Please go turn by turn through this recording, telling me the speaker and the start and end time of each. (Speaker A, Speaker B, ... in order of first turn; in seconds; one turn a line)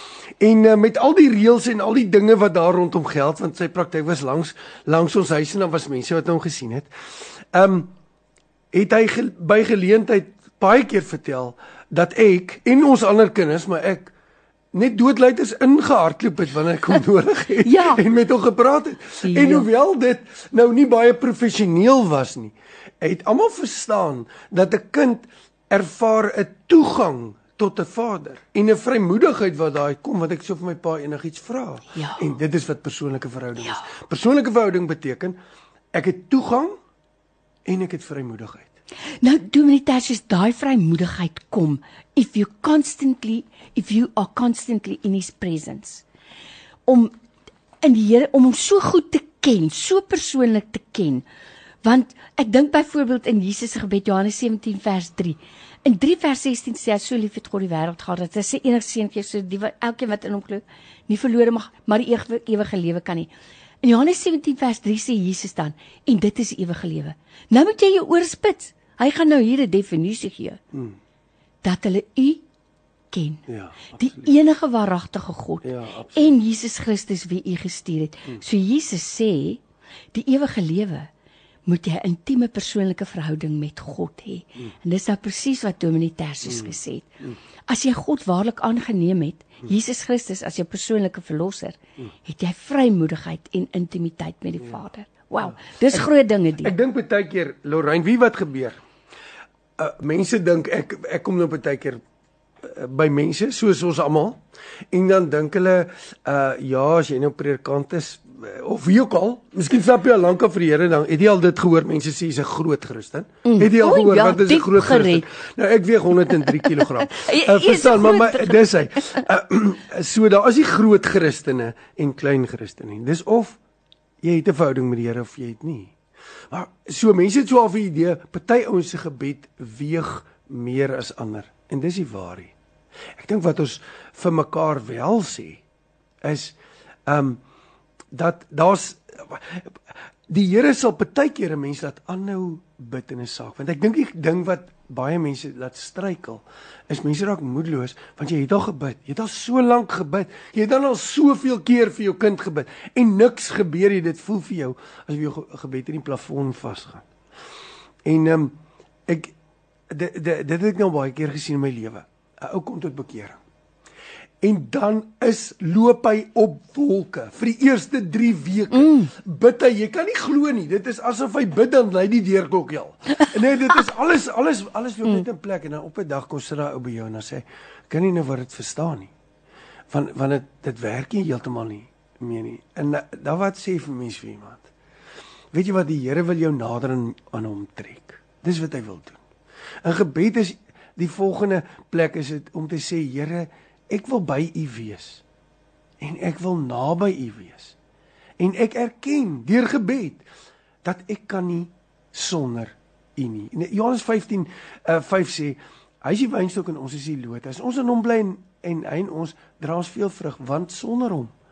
Speaker A: 0.4-6.9
Speaker A: 7.5-7.9
Speaker A: 8.7-14.1
Speaker A: 14.7-35.4
Speaker B: 17.6-18.0
Speaker B: 19.2-19.7
Speaker B: 31.9-32.2
Speaker A: 35.9-36.8
Speaker A: 37.6-38.7
Speaker B: 39.2-46.0
Speaker B: 46.9-47.1
Speaker B: 47.8-51.2
Speaker B: 51.8-63.3
Speaker B: 63.8-70.6
Speaker A: 70.7-71.0
Speaker B: 71.6-72.4
Speaker B: 73.1-73.4
Speaker A: 73.5-74.3
Speaker B: 73.9-79.6
Speaker A: 75.6-76.3
Speaker B: 80.1-81.1
Speaker B: 81.7-87.1
Speaker A: 86.4-87.3
Speaker B: 87.7-96.7
Speaker A: 95.4-96.0
Speaker A: 96.6-98.8
Speaker A: 99.8-102.0
Speaker A: 102.6-123.6
Speaker B: 113.4-115.2
Speaker B: 116.5-119.2
Speaker A: 124.2-125.9
Speaker A: 126.5-132.5
Speaker A: 133.2-135.6
Speaker A: 136.2-137.4
Speaker A: 138.1-139.7
Speaker A: 140.3-157.1
Speaker A: 158.0-158.6
Speaker A: 159.1-159.3
Speaker A: 159.9-163.4
Speaker A: 164.4-179.1
Speaker B: 168.7-169.1
Speaker A: 179.9-184.7
Speaker A: 185.5-189.2
Speaker A: 189.8-195.2
Speaker A: 196.0-197.7
Speaker A: 198.4-200.2
Speaker A: 200.8-211.3